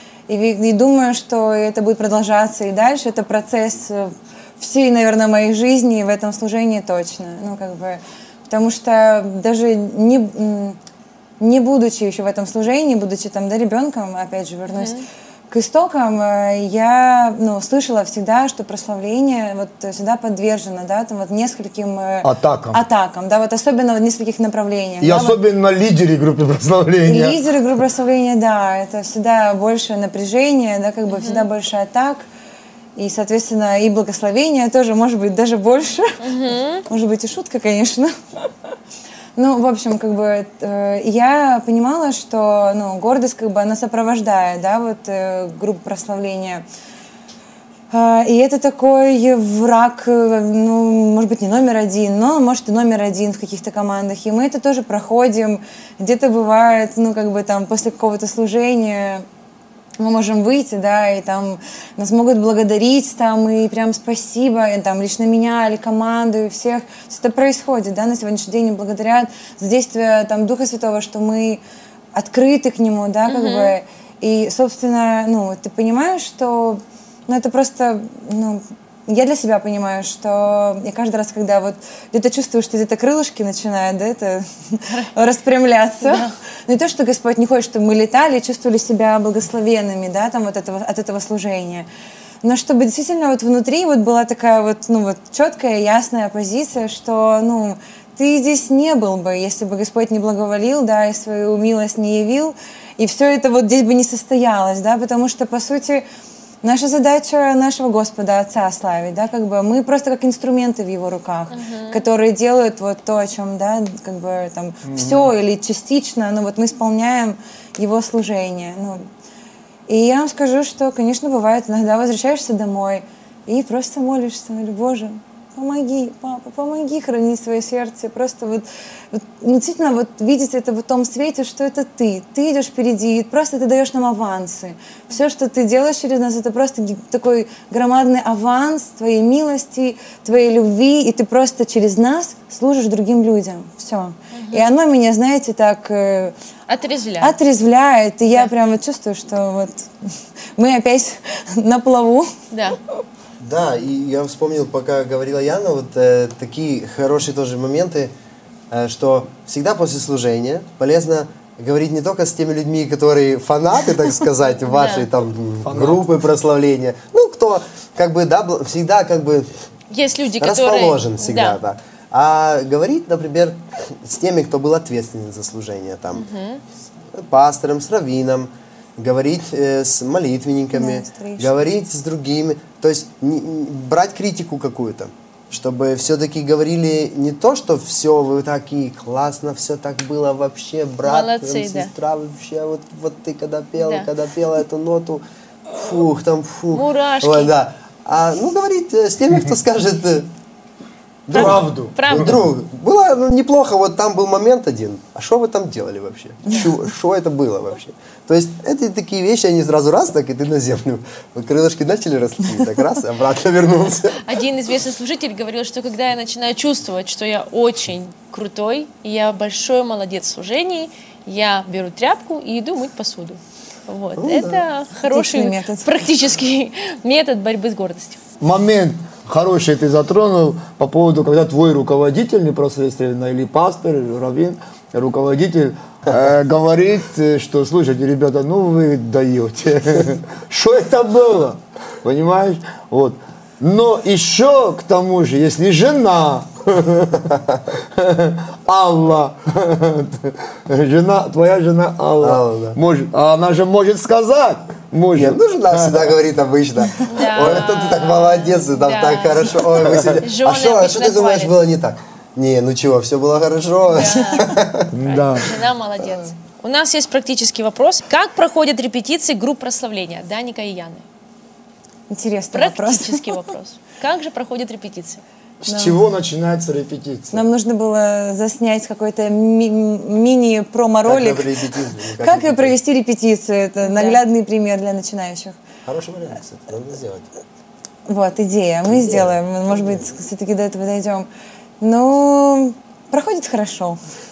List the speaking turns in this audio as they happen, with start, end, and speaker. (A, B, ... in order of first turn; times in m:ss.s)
0:00.3-0:10.8 A
0:11.4-0:25.4 A
0:14.7-0:15.0 B
0:22.2-0:22.8 C
0:25.0-0:27.4 C
0:27.0-0:32.3 A
0:31.1-0:31.5 B
0:33.0-0:36.2 A
0:36.2-0:36.8 B
0:36.9-0:38.1 A
0:39.4-0:46.6 A
0:47.9-0:59.2 A
1:00.0-1:11.6 A
1:12.1-1:31.9 A
1:13.2-1:13.8 B
1:26.0-1:26.3 B
1:32.4-1:46.0 A
1:46.6-1:59.1 A
1:51.5-1:52.0 B
1:54.9-1:55.3 C
1:59.9-2:26.3 A
2:24.3-2:24.6 B
2:26.7-2:27.4 B
2:27.2-2:32.3 A
2:32.5-2:32.8 B
2:33.4-2:38.1 D
2:38.7-2:49.5 D
2:44.6-2:45.1 B
2:45.6-2:46.1 C
2:49.9-2:51.6 B
2:50.4-2:56.3 D
2:56.1-2:56.6 B
2:57.1-3:20.3 D
3:00.7-3:01.5 A
3:11.0-3:11.9 B
3:13.8-3:14.1 B
3:16.7-3:17.5 B
3:21.3-3:34.2 D
3:21.3-3:22.4 B
3:21.3-3:22.5 C
3:34.2-3:48.2 B
3:44.2-3:44.6 D
3:45.1-3:45.9 A
3:48.4-4:16.1 C
4:12.2-4:12.8 D
4:15.2-4:24.9 D
4:17.1-4:19.7 B
4:20.2-4:21.7 B
4:23.9-4:31.0 B
4:24.9-4:25.5 C
4:32.1-4:33.2 A
4:32.5-4:35.2 B
4:35.6-4:37.4 C
4:35.7-4:36.0 A
4:37.3-4:41.5 A
4:41.1-4:42.8 D
4:42.2-4:45.6 A
4:43.8-4:44.2 B
4:45.9-4:47.3 D
4:48.1-4:51.3 A
4:48.9-4:50.0 D
4:51.8-4:54.0 A